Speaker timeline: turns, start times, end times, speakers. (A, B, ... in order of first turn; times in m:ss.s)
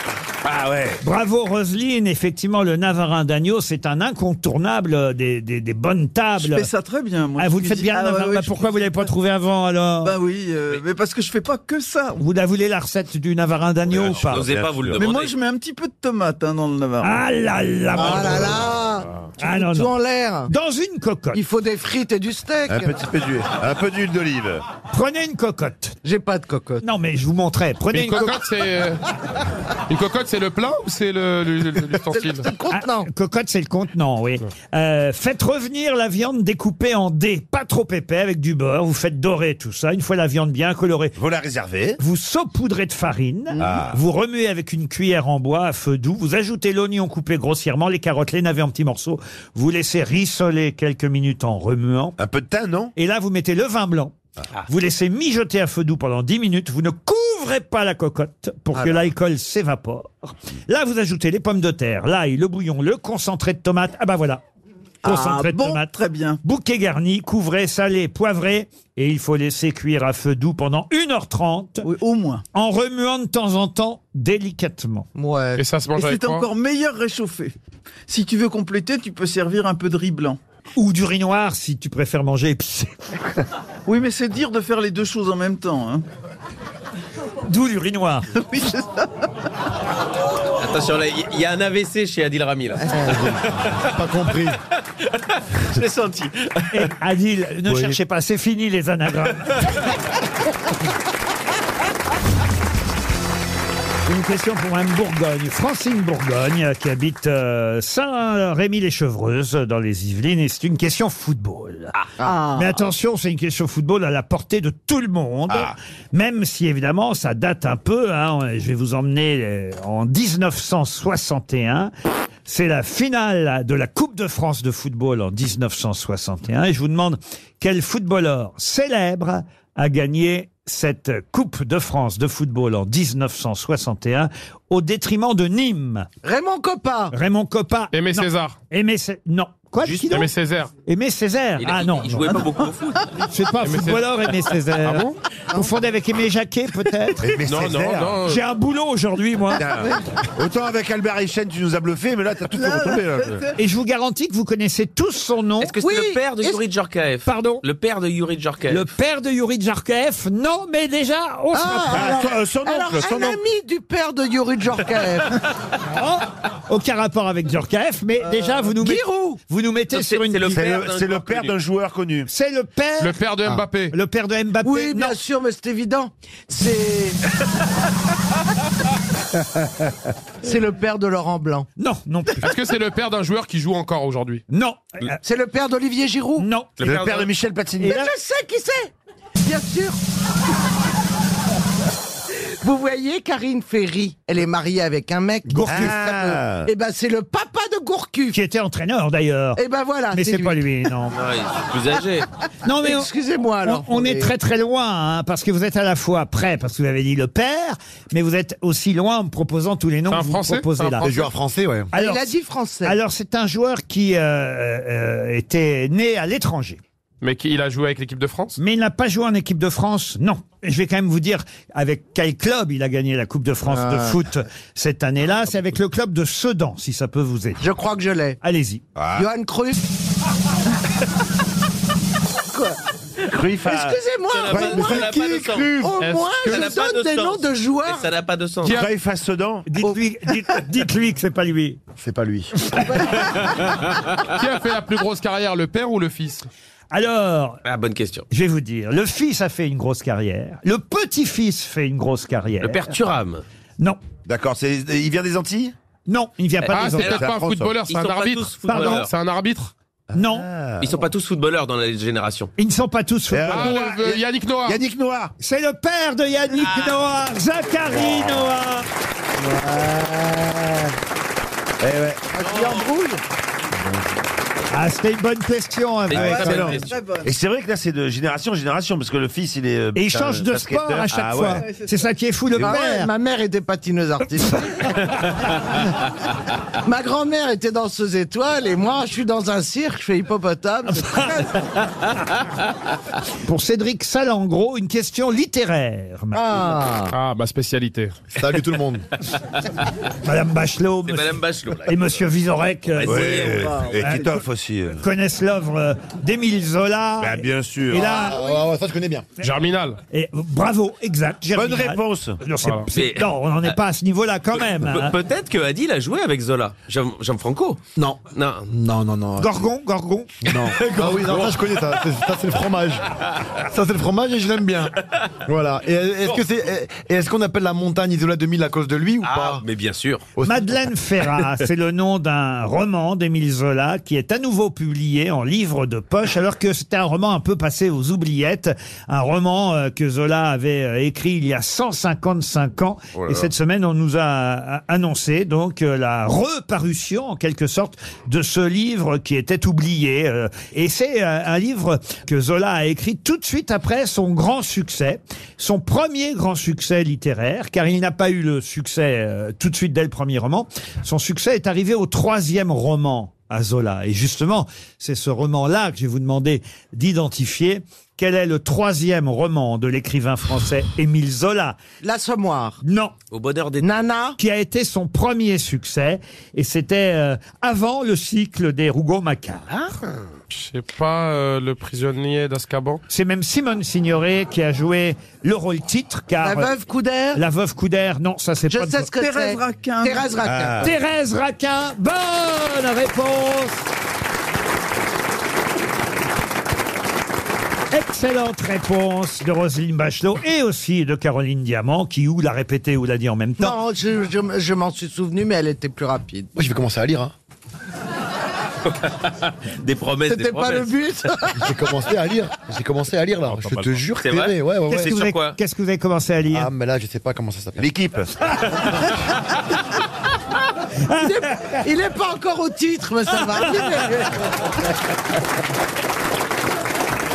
0:00.4-0:01.0 A
0:01.0-0:06.7 B
0:06.4-0:09.1 C
0:07.4-0:10.1 B
0:10.0-0:12.2 C
0:12.2-0:14.4 B
0:13.9-0:15.0 A
0:14.1-0:15.3 D
0:15.0-0:17.2 C
0:17.0-0:18.6 B
0:17.9-0:20.5 E
0:19.4-0:19.9 B
0:20.5-0:21.4 B
0:21.3-0:22.9 E
0:22.7-0:24.6 A
0:24.9-0:26.0 B
0:26.0-0:26.8 E
0:26.8-0:28.4 B
0:27.9-0:29.0 F
0:29.9-0:32.5 F
0:32.1-0:33.1 E
0:32.7-0:41.1 B
0:41.2-0:42.0 A
0:42.0-0:52.2 B
0:43.6-0:44.0 A
0:52.2-0:52.9 A
0:53.0-0:54.2 B
0:54.7-1:04.4 B
1:05.0-1:06.4 C
1:05.0-1:11.9 B
1:11.8-1:12.4 C
1:12.5-1:15.1 B
1:15.1-1:15.6 E
1:15.6-1:16.5 F
1:15.9-1:17.5 C
1:18.1-1:20.4 C
1:20.8-1:23.1 B
1:23.8-1:26.0 C
1:27.4-1:28.3 B
1:28.3-1:29.3 C
1:30.6-1:32.9 D
1:32.9-1:34.6 G
1:33.5-1:33.8 D
1:35.5-1:36.9 D
1:36.7-1:39.6 B
1:44.0-1:52.0 B
1:52.2-1:52.8 E
1:52.5-2:01.9 B
1:55.5-1:55.7 A
2:02.4-2:16.1 B
2:16.2-2:17.1 E
2:17.1-2:20.3 B
2:17.9-2:18.6 F
2:20.1-2:20.7 F
2:20.8-2:22.4 B
2:21.6-2:23.0 D
2:23.2-2:27.3 B
2:23.6-2:24.1 F
2:27.2-2:28.2 A
2:27.4-2:28.4 F
2:28.2-2:29.6 B
2:29.5-2:33.4 A
2:32.5-2:33.5 C
2:33.6-2:35.7 B
2:35.6-2:38.8 D
2:35.8-2:36.6 E
2:37.2-2:37.6 B
2:38.7-2:42.2 B
2:41.5-2:45.4 E
2:41.9-2:43.4 A
2:45.9-2:50.6 B
2:48.8-2:49.4 E
2:49.9-2:51.6 D
2:50.5-2:52.3 A
2:52.3-2:53.2 B
2:53.0-2:53.9 F
2:53.9-2:55.1 B
2:54.6-2:57.2 E
3:00.4-3:01.7 E
3:01.8-3:02.5 B
3:02.4-3:04.4 F
3:04.5-3:05.2 B
3:05.2-3:06.5 E
3:06.4-3:07.2 B
3:06.8-3:08.0 A
3:07.8-3:08.1 B
3:07.8-3:10.0 E
3:12.6-3:18.4 E
3:15.5-3:16.0 B
3:15.7-3:16.7 A
3:18.3-3:19.6 B
3:19.6-3:20.6 E
3:20.1-3:21.2 B
3:21.1-3:22.3 D
3:22.6-3:23.1 B
3:22.8-3:24.3 E
3:23.6-3:31.1 B
3:30.1-3:31.1 F
3:31.0-3:31.9 G
3:31.9-3:33.0 E
3:31.9-3:32.3 B
3:32.8-3:36.8 B
3:37.2-3:38.6 F
3:38.6-3:47.6 B
3:43.7-3:44.2 E
3:47.6-3:48.4 E
3:48.4-3:48.8 B
3:49.0-3:49.3 A
3:49.1-3:49.8 E
3:52.5-3:52.8 E
3:53.3-3:54.0 A
3:53.6-3:55.1 E
3:54.3-3:55.7 D
3:54.5-3:55.5 A
3:55.2-3:55.9 G
3:55.8-3:58.1 E
3:56.0-3:56.8 F
3:56.4-3:58.8 D
3:58.6-3:58.9 F
3:58.6-3:59.7 A
3:59.7-4:01.8 B
4:02.0-4:02.5 G
4:02.6-4:02.9 B
4:02.8-4:03.5 E
4:04.3-4:06.4 F
4:06.9-4:07.6 B
4:07.6-4:08.2 D
4:08.3-4:12.9 B
4:12.6-4:13.4 D
4:14.2-4:15.7 A
4:16.1-4:17.2 B
4:16.7-4:19.7 F
4:17.0-4:17.8 A
4:17.9-4:19.1 D
4:18.7-4:19.0 B
4:20.1-4:21.0 A
4:20.1-4:20.5 B
4:20.8-4:22.5 D
4:22.6-4:23.8 B
4:23.3-4:25.3 A
4:23.5-4:24.8 F
4:25.4-4:28.9 B
4:27.9-4:28.5 A
4:29.4-4:30.9 E
4:31.8-4:32.2 A
4:32.3-4:33.2 E
4:32.4-4:32.9 D
4:34.7-4:36.8 B
4:36.1-4:36.9 D
4:36.1-4:37.3 C
4:36.2-4:41.7 A
4:39.9-4:43.1 B
4:41.6-4:41.9 C
4:42.6-4:45.1 E
4:46.8-4:51.6 E
4:53.4-4:56.7 B
4:56.3-4:57.1 E
4:57.1-4:58.2 F
4:58.3-4:59.0 G
5:00.2-5:04.4 B
5:01.1-5:02.1 D
5:03.0-5:03.9 D
5:03.0-5:05.0 A
5:03.4-5:04.0 C
5:05.0-5:08.4 B
5:07.2-5:08.2 A
5:08.0-5:09.3 G
5:09.4-5:10.0 F
5:10.1-5:15.1 B
5:11.5-5:12.4 A
5:12.9-5:13.7 D
5:14.6-5:17.8 D
5:18.0-5:19.6 G
5:18.3-5:18.7 D
5:19.4-5:20.4 B
5:20.4-5:23.0 G
5:20.7-5:21.6 D
5:23.6-5:24.9 G
5:25.4-5:29.6 G
5:29.2-5:30.2 D
5:30.4-5:30.7 G
5:30.4-6:11.8 B
5:43.1-5:43.5 A
6:12.0-6:12.8 E
6:12.8-6:13.1 B
6:13.3-6:13.9 D
6:13.8-6:14.4 E
6:14.4-6:19.8 B
6:20.5-6:23.0 F
6:23.1-6:26.7 B
6:26.4-6:27.4 E
6:27.3-6:29.1 B
6:28.7-6:30.9 E
6:29.2-6:30.4 C
6:30.4-6:30.9 A
6:30.8-6:33.9 B
6:37.9-6:43.8 B
6:43.6-6:46.5 E
6:46.5-6:47.3 G
6:49.8-6:51.0 D
6:50.2-6:51.6 E
6:51.6-6:55.2 G
6:53.5-6:54.0 F
6:54.2-6:55.6 D
6:54.9-6:56.7 B
6:56.5-6:57.8 G
6:57.8-6:58.3 A
7:01.2-7:04.4 E